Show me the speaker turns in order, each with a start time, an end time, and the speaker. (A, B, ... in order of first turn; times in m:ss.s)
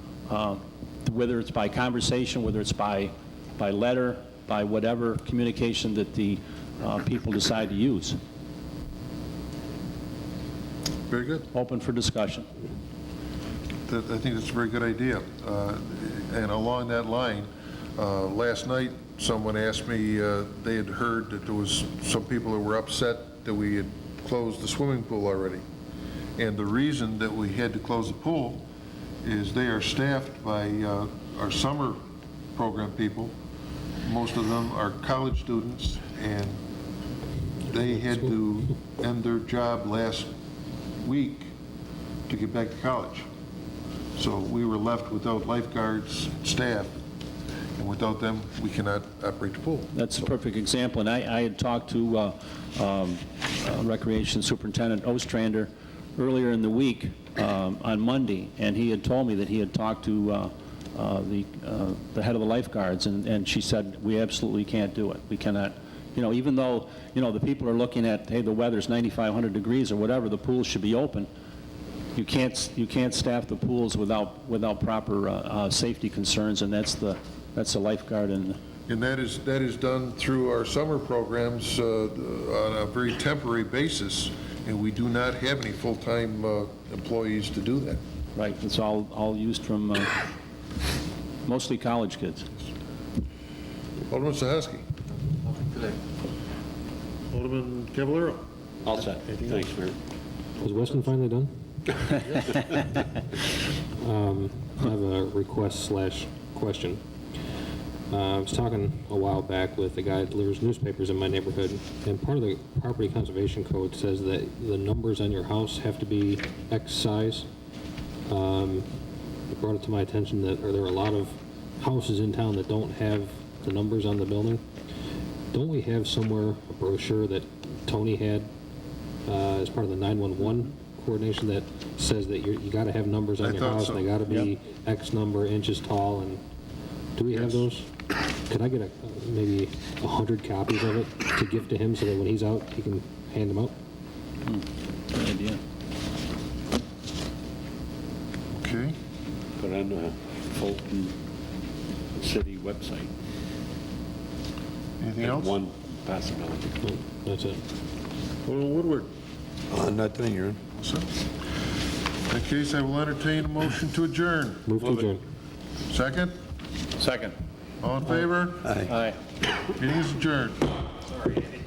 0:00.3-0:08.2 A
0:11.1-0:11.5 B
0:11.5-0:12.5 A
0:13.9-0:25.6 B
0:26.4-0:28.6 B
0:29.2-0:32.0 B
0:32.6-0:33.3 B
0:34.0-0:36.6 B
0:37.7-0:40.3 B
0:41.0-0:41.5 B
0:42.3-0:43.3 B
0:44.2-0:47.0 B
0:47.8-0:49.9 B
0:49.9-1:11.3 A
1:12.2-1:18.6 A
1:18.9-1:28.0 B
1:28.4-1:30.2 A
1:31.4-1:32.5 A
1:34.1-1:34.9 B
1:37.3-1:38.4 B
1:38.8-1:40.0 C
1:39.3-1:39.6 B
1:40.6-1:41.5 D
1:44.0-1:47.0 D
1:48.1-1:57.5 D
1:58.3-1:58.9 D
1:59.5-2:04.6 D
2:05.5-2:08.5 D
2:09.3-2:16.4 D
2:13.4-2:14.1 B
2:17.2-2:17.9 D
2:17.4-2:17.6 B
2:18.5-2:23.7 D
2:24.5-2:25.6 A
2:28.5-2:29.0 B
2:29.6-2:31.2 C
2:32.1-2:33.1 C
2:35.0-2:35.6 B
2:35.2-2:36.8 C
2:36.8-2:37.6 D
2:38.4-2:39.1 B
2:39.7-2:40.6 C
2:40.8-2:41.1 B
2:42.3-2:44.7 B
2:44.7-2:45.2 D
2:45.9-2:46.4 B
2:47.0-2:47.4 A
2:47.8-2:48.9 B
2:48.6-2:48.9 C
2:48.8-2:49.2 A
2:49.7-2:50.7 B